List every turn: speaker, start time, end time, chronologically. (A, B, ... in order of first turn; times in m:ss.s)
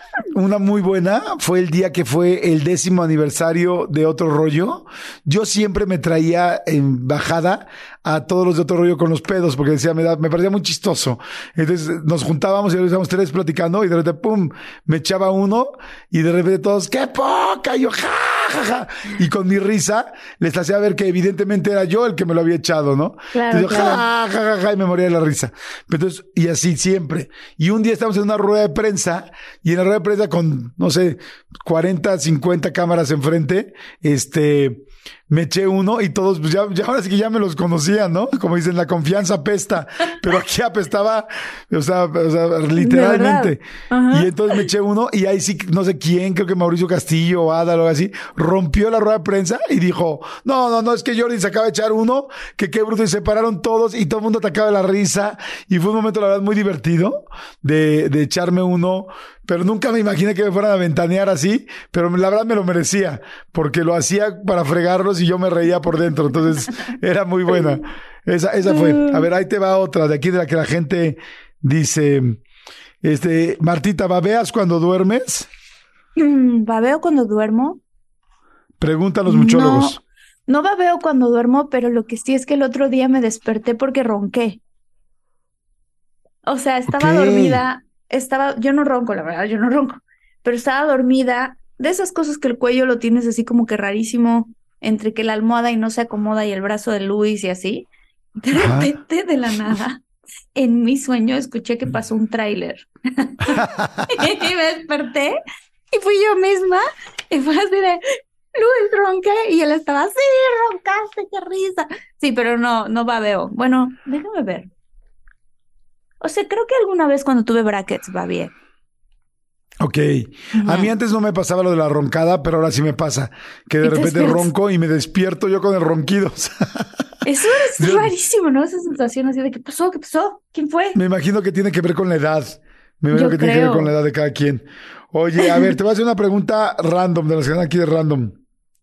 0:00.3-1:12.4 A
0:23.3-0:24.0 B
0:42.8-0:44.6 B
1:08.7-1:09.3 B
1:13.0-1:15.5 A
1:16.2-1:17.8 B
1:18.8-1:20.0 A
1:19.3-1:24.6 B
1:26.4-1:37.9 B
1:26.9-1:27.6 A
1:38.4-1:40.0 B
1:38.5-1:38.9 A
1:40.5-1:43.6 B
1:43.4-1:44.3 A
1:44.1-1:45.4 B
1:45.9-1:48.0 B
1:48.5-1:54.7 B
1:56.2-1:58.5 B
1:59.8-2:06.9 A
2:00.5-2:00.9 B
2:03.8-2:04.5 B
2:07.2-2:11.0 B
2:07.8-2:08.1 A
2:10.9-2:18.4 A
2:13.1-2:13.9 B
2:15.4-2:15.7 B